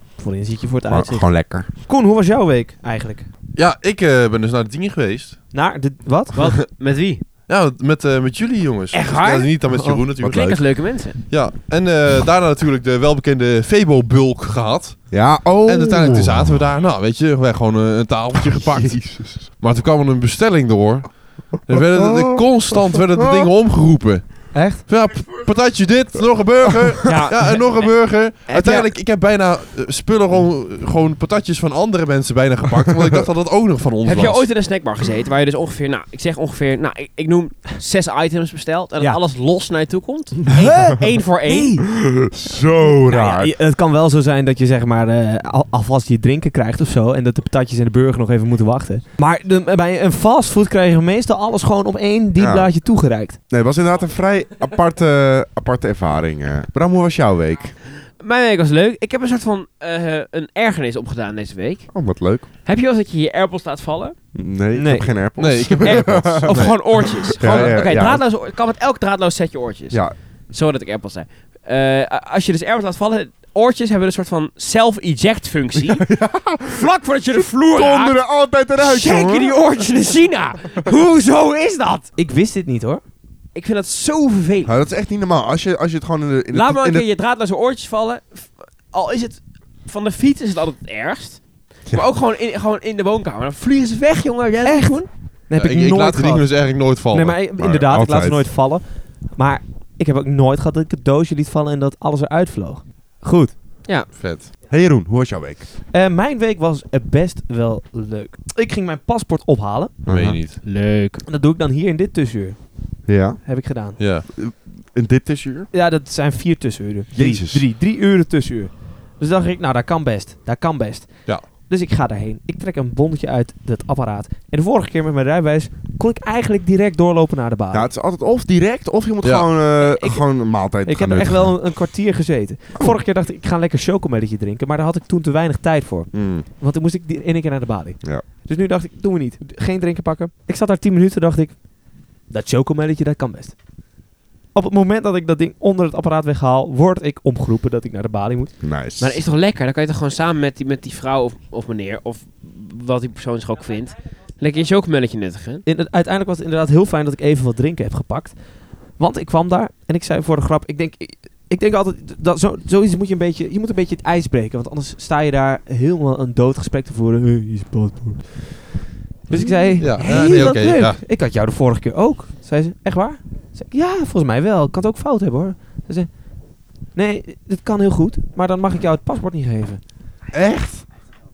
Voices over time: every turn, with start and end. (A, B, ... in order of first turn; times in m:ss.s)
0:00.2-0:03.3 A
0:00.9-0:01.7 B
0:03.5-0:05.4 C
0:05.5-0:06.4 A
0:06.3-0:07.2 D
0:07.5-0:34.5 C
0:08.9-0:11.2 D
0:15.1-0:16.5 B
0:18.4-0:19.4 B
0:21.7-0:23.5 B
0:24.5-0:24.8 A
0:27.0-0:28.9 D
0:34.0-0:41.8 D
0:40.6-0:41.8 A
0:41.9-0:43.5 B
0:43.1-0:53.4 A
0:52.4-0:52.7 B
0:53.5-0:57.7 B
0:58.2-1:02.0 D
1:01.9-1:02.5 B
1:02.6-1:04.2 D
1:04.3-1:08.2 B
1:04.7-1:05.1 A
1:05.4-1:07.8 C
1:05.8-1:16.0 D
1:15.8-1:19.6 B
1:16.7-1:18.2 D
1:18.8-1:22.1 D
1:22.2-1:23.0 A
1:23.5-1:24.7 D
1:24.6-1:27.0 B
1:26.5-1:35.1 D
1:34.6-1:43.5 A
1:35.6-1:37.4 C
1:37.6-1:38.5 B
1:44.1-1:44.5 C
1:44.7-1:45.6 B
1:45.9-1:49.9 A
1:50.0-1:50.4 B
1:50.0-1:50.6 C
1:50.6-1:51.2 D
1:51.2-1:54.0 A
1:53.1-1:53.5 B
1:54.0-1:54.2 C
1:54.3-1:55.7 B
1:55.7-2:07.9 A
1:57.1-1:57.6 B
2:07.7-2:11.7 B
2:09.2-2:09.5 C
2:09.8-2:21.6 A
2:16.1-2:16.4 B
2:22.3-2:23.5 A
2:24.5-2:28.5 A
2:28.6-2:29.2 B
2:29.0-2:35.6 D
2:35.6-2:38.4 A
2:39.0-2:48.7 A
2:49.3-2:56.1 A
2:49.3-2:51.0 C
2:56.9-2:59.8 A
3:00.3-3:00.8 B